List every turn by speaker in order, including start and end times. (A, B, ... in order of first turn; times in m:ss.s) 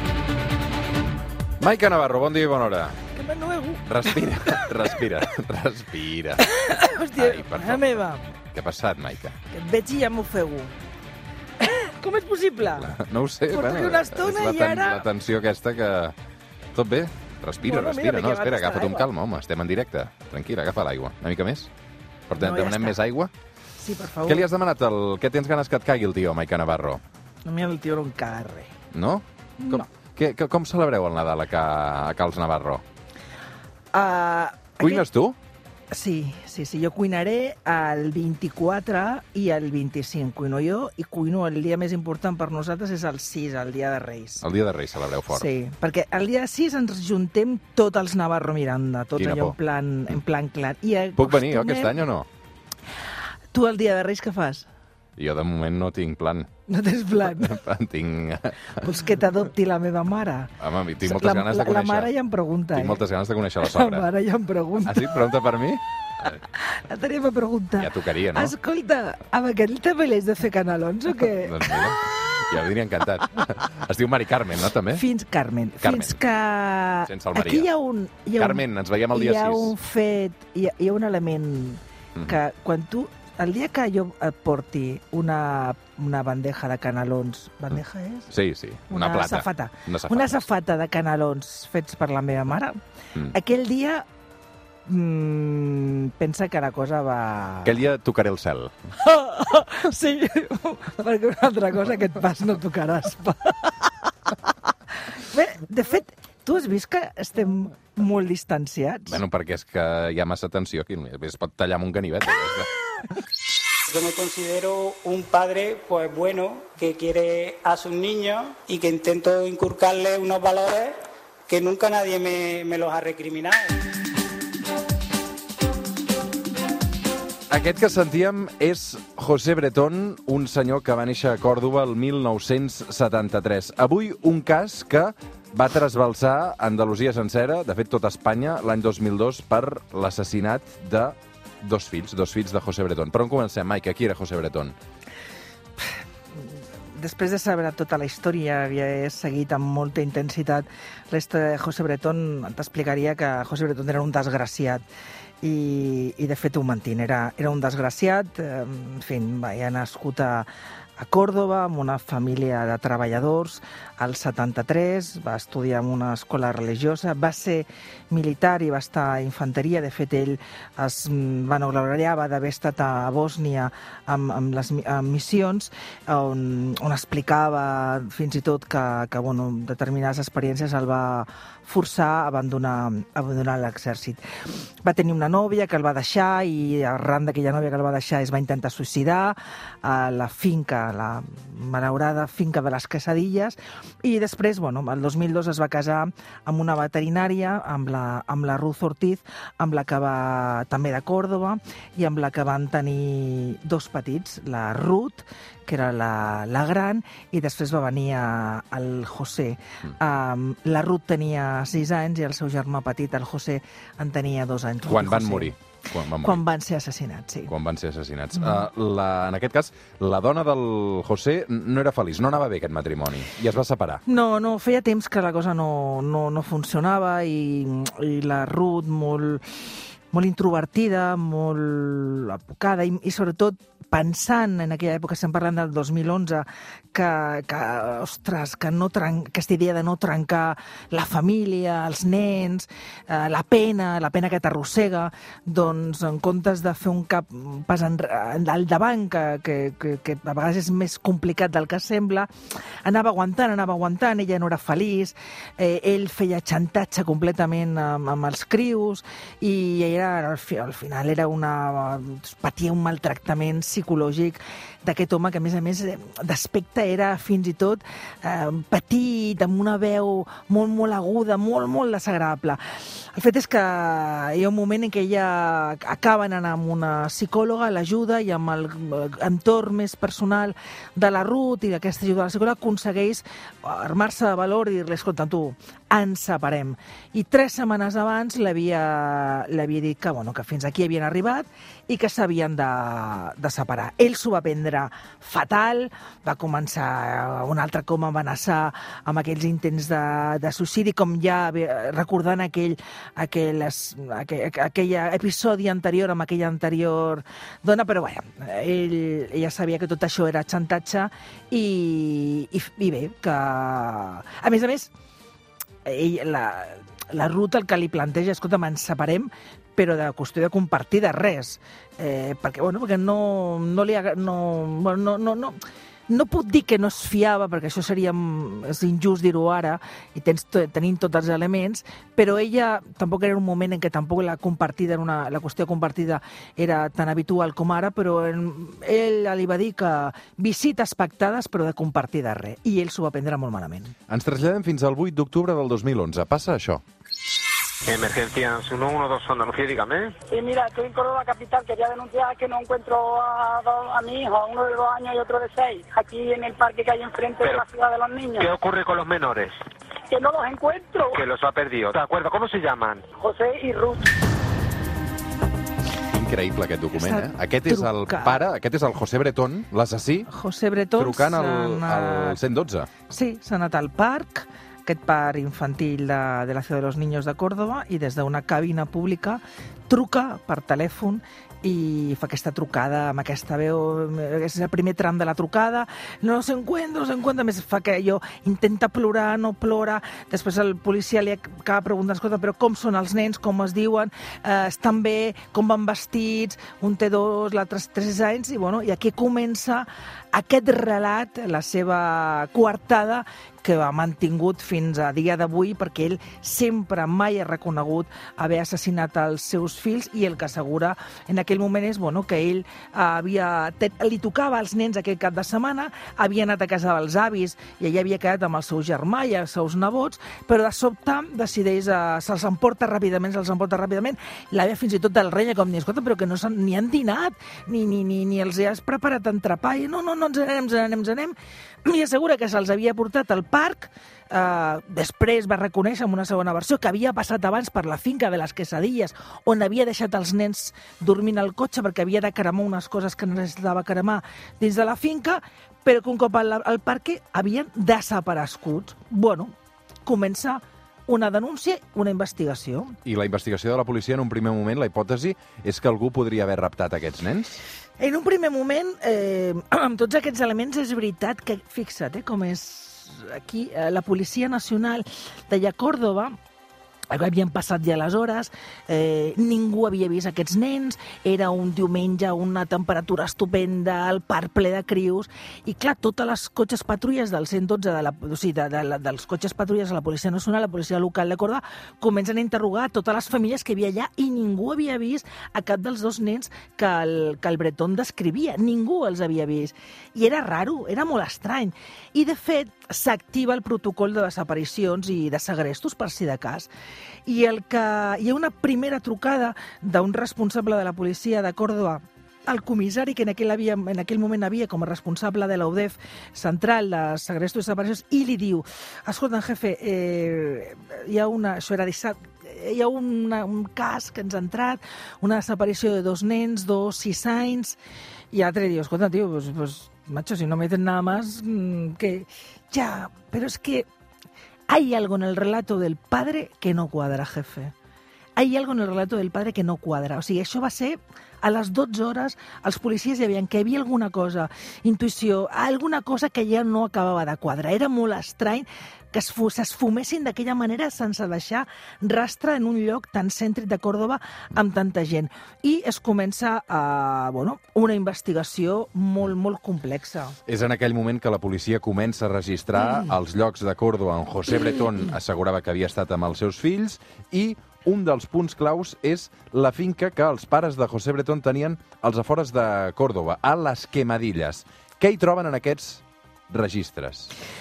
0:01.6-0:03.0 A
0:03.1-0:04.7 B
0:03.9-0:06.5 A
0:06.4-0:08.3 B
0:07.2-0:08.0 A
0:08.5-0:09.3 A
0:09.5-0:10.7 B
0:11.6-0:13.0 B
0:12.6-0:16.1 A
0:13.5-0:15.0 B
0:16.7-0:21.7 A
0:17.6-0:19.1 B
0:22.3-0:23.3 A
0:22.4-0:23.0 B
0:23.8-0:24.5 B
0:24.2-0:27.0 A
0:27.4-0:28.7 B
0:28.9-0:32.8 A
0:29.6-0:29.8 B
0:33.9-0:35.0 B
0:34.8-0:35.4 A
0:35.9-0:44.4 B
0:44.4-0:45.5 A
0:45.3-0:52.0 B
0:49.2-0:49.5 A
0:51.2-0:52.3 A
0:53.5-0:54.7 B
0:55.2-0:56.5 A
0:56.7-0:57.6 B
0:57.2-0:58.7 A
0:58.8-1:03.0 B
1:00.6-1:02.1 A
1:02.7-1:04.1 A
1:03.6-1:05.2 B
1:04.8-1:06.4 A
1:06.5-1:12.4 B
1:07.8-1:08.5 A
1:11.4-1:15.0 A
1:14.9-1:28.3 B
1:15.8-1:16.2 A
1:17.1-1:17.7 A
1:18.4-1:19.7 A
1:28.3-1:30.4 A
1:28.9-1:32.8 B
1:33.3-1:34.0 B
1:34.8-1:37.8 B
1:37.6-1:38.7 A
1:39.0-1:43.9 B
1:45.1-1:49.2 B
1:49.1-1:52.7 A
1:53.9-2:00.9 C
2:01.5-2:03.7 C
2:07.5-2:24.7 A
2:26.9-2:34.8 B
2:35.4-3:04.2 B
3:04.8-3:35.5 B
3:34.9-3:36.4 A
3:36.2-3:37.5 B
3:37.5-3:44.0 A
3:44.0-3:49.4 B
3:50.1-4:12.3 B
4:12.8-5:14.9 B
5:15.8-5:25.6 B
5:26.1-5:43.9 B
5:44.1-5:46.8 A
5:47.9-5:50.1 D
5:50.3-5:58.5 E
5:57.4-5:57.6 D
5:58.4-5:59.5 D
6:00.1-6:01.2 E
6:01.1-6:03.0 D
6:03.2-6:04.1 E
6:06.1-6:10.3 A
6:06.9-6:08.4 B
6:10.3-6:12.4 B
6:11.0-6:12.9 A
6:13.1-7:29.5 B
7:30.0-7:33.0 B
7:33.0-7:37.5 A
7:38.0-7:46.3 B
7:47.1-8:16.7 B
8:17.2-8:37.8 B
8:38.3-8:43.9 B
8:44.7-8:47.7 B
8:48.4-9:10.4 B
9:10.4-9:27.3 A